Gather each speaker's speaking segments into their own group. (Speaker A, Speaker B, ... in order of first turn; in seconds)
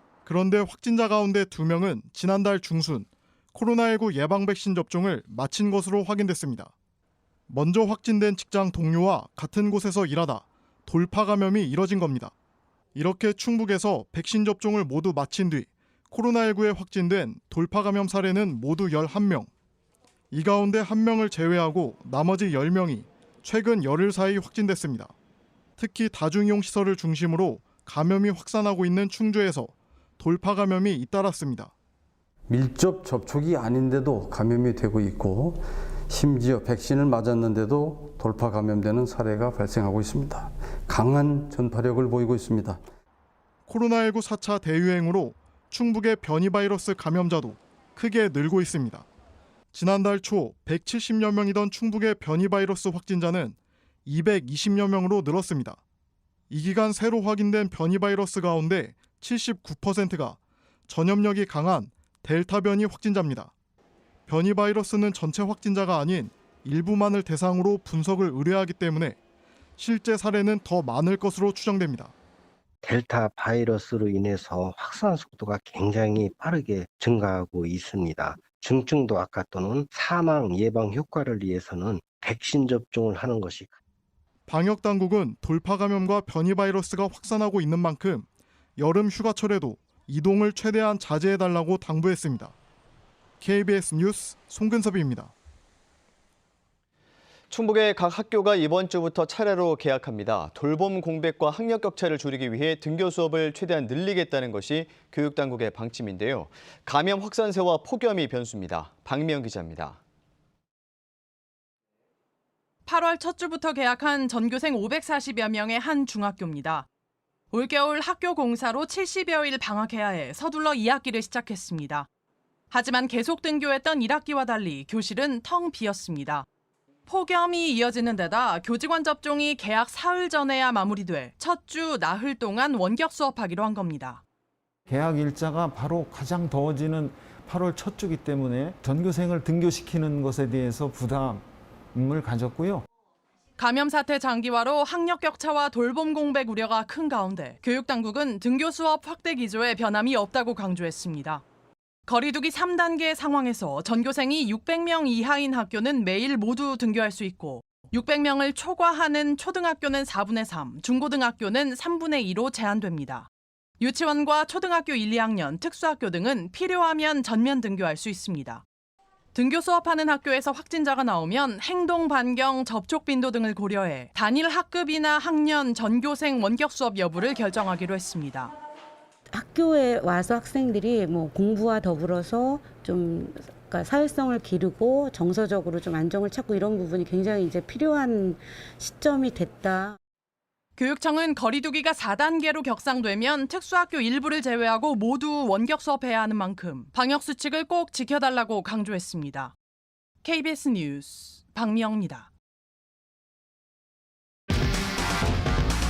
Speaker A: 0.3-6.7, 7.5-12.3, 12.9-19.5, 20.3-25.1, 25.8-31.7, 43.7-49.1, 49.7-55.8, 56.5-60.4, 60.9-63.5, 64.3-69.2, 69.8-72.1, 84.5-88.3, 88.8-92.5, 93.4-95.3
Speaker B: 32.5-42.8
Speaker C: 72.8-83.8
Speaker D: 97.5-110.0
Speaker E: 112.9-116.8, 117.5-122.1, 122.7-126.5, 127.1-134.2, 143.6-151.4, 152.1-163.3, 163.8-168.6, 169.3-178.5, 190.8-199.5, 200.2-202.2
Speaker F: 134.9-142.8, 169.5-171.0, 171.5-172.2, 173.1-173.8, 174.6-174.9, 176.0-176.6, 177.2-177.9, 191.0-192.7
Speaker G: 179.3-190.0